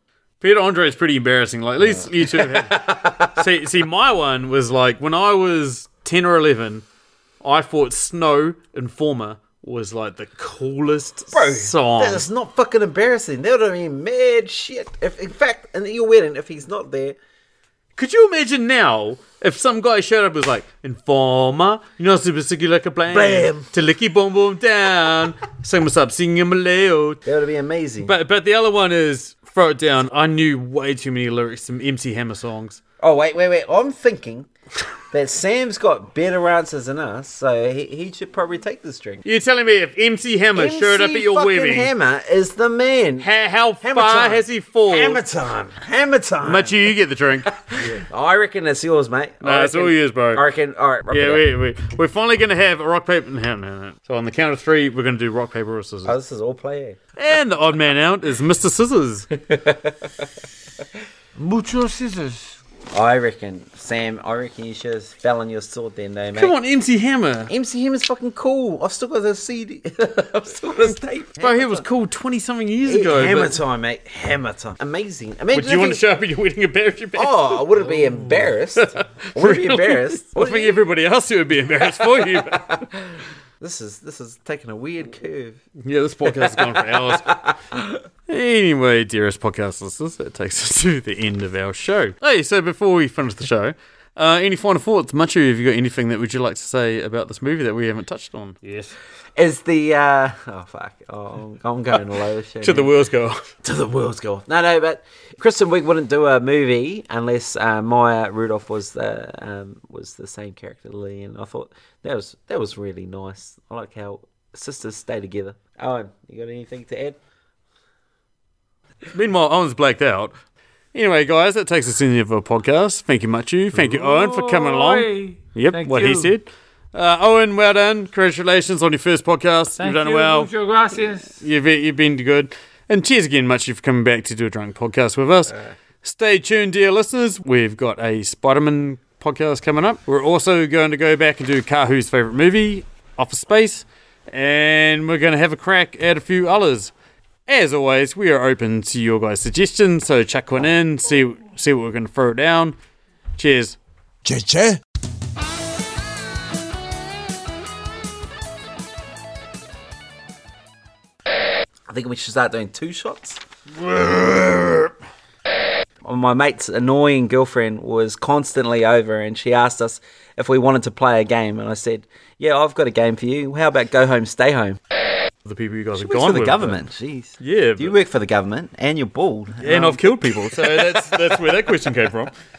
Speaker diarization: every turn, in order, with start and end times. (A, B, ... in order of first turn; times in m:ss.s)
0:00.4-0:06.8 A
0:01.8-0:03.4 B
0:07.4-0:12.2 A
0:11.3-0:17.2 B
0:18.0-0:27.2 A
0:23.1-0:23.7 B
0:27.3-0:28.1 B
0:28.0-0:32.8 A
0:33.0-0:34.5 B
0:35.1-0:39.2 B
0:39.2-0:41.9 A
0:40.6-0:43.3 B
0:43.2-0:45.2 A
0:43.8-0:47.0 B
0:46.4-0:48.0 A
0:47.5-0:51.4 B
0:49.4-0:50.4 A
0:51.1-0:56.2 A
0:56.0-0:57.0 B
0:57.2-0:59.3 A
0:59.4-1:00.3 B
1:01.4-1:02.6 C
1:02.9-1:06.6 B
1:06.4-1:07.5 A
1:07.5-1:11.8 B
1:11.4-1:13.6 A
1:12.8-1:16.0 B
1:15.5-1:23.1 A
1:17.2-1:20.8 B
1:23.6-1:25.6 B
1:25.8-1:27.3 A
1:26.2-1:27.8 B
1:28.3-1:38.9 A
1:39.4-1:42.9 B
1:42.6-1:43.4 A
1:43.6-1:57.2 B
1:59.1-2:00.3 A
2:00.9-2:10.5 A
2:03.8-2:06.3 C
2:09.8-2:11.4 C
2:11.4-2:26.9 A
2:27.5-2:32.8 A
2:33.4-2:33.8 A
2:34.3-2:34.8 B
2:41.9-2:44.9 B
2:46.0-2:54.8 B
2:55.4-2:56.9 A
2:56.0-3:01.4 B
2:57.4-2:58.0 A
2:59.6-3:02.3 A